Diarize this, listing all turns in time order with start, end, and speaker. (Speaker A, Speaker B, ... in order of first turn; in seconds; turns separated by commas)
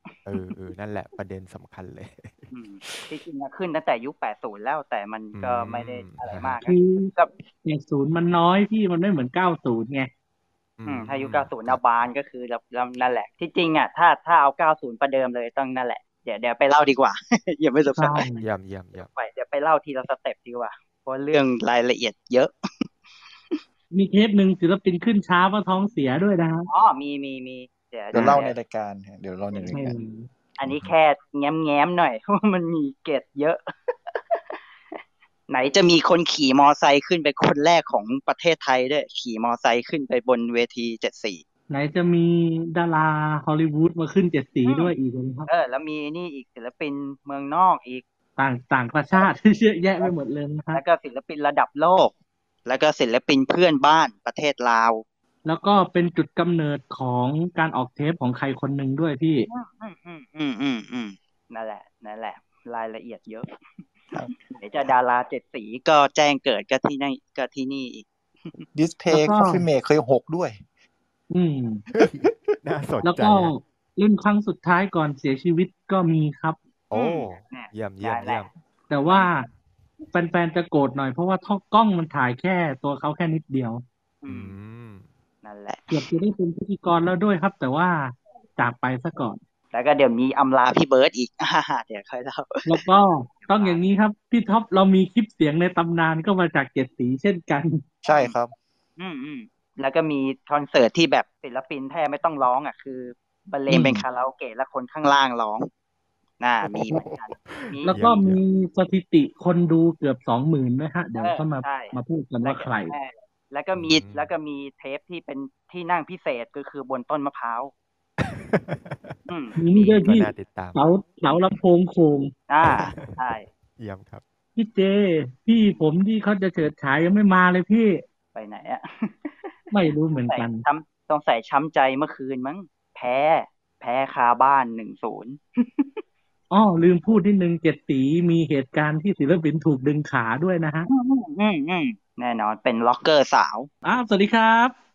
Speaker A: 0.3-3.1, Speaker B: 2.5-7.3, Speaker A: 5.3-6.6, Speaker C: 6.7-7.1, Speaker C: 7.7-10.1, Speaker A: 10.8-12.1, Speaker B: 10.9-18.2, Speaker C: 17.9-18.4, Speaker A: 18.4-19.1, Speaker B: 19.0-22.5, Speaker C: 23.9-26.7, Speaker B: 26.7-28.5, Speaker D: 28.1-30.0, Speaker C: 29.7-30.3, Speaker B: 30.6-33.6, Speaker A: 30.6-30.9, Speaker B: 35.5-41.4, Speaker C: 41.7-45.5, Speaker B: 44.6-44.9, Speaker B: 45.5-48.0, Speaker C: 48.4-50.8, Speaker B: 50.7-52.1, Speaker B: 52.7-55.0, Speaker C: 55.5-59.5, Speaker B: 59.5-63.5, Speaker B: 64.3-68.6, Speaker D: 68.7-70.6, Speaker C: 69.1-69.6, Speaker C: 71.3-71.9, Speaker A: 71.9-73.5, Speaker C: 73.0-76.6, Speaker A: 76.9-78.5, Speaker B: 76.9-78.5, Speaker C: 78.9-79.5, Speaker C: 80.1-83.8, Speaker B: 84.2-84.6, Speaker A: 84.3-85.1, Speaker B: 85.4-86.0, Speaker C: 85.9-89.4, Speaker B: 89.7-92.8, Speaker C: 92.7-97.8, Speaker B: 93.4-93.8, Speaker D: 98.0-98.5, Speaker B: 98.1-98.3, Speaker B: 99.0-105.7, Speaker C: 103.7-104.0, Speaker B: 106.4-108.0, Speaker A: 106.6-108.4, Speaker C: 107.9-112.9, Speaker B: 111.2-117.7, Speaker A: 113.8-114.3, Speaker A: 118.2-119.2, Speaker B: 119.3-120.0, Speaker C: 119.6-122.3, Speaker A: 119.9-120.8, Speaker B: 122.5-123.5, Speaker A: 122.6-123.2, Speaker A: 123.8-124.2, Speaker C: 124.6-128.0, Speaker B: 128.3-129.6, Speaker C: 129.7-130.6, Speaker B: 130.2-135.9, Speaker C: 136.5-140.9, Speaker B: 140.9-143.7, Speaker C: 143.8-144.7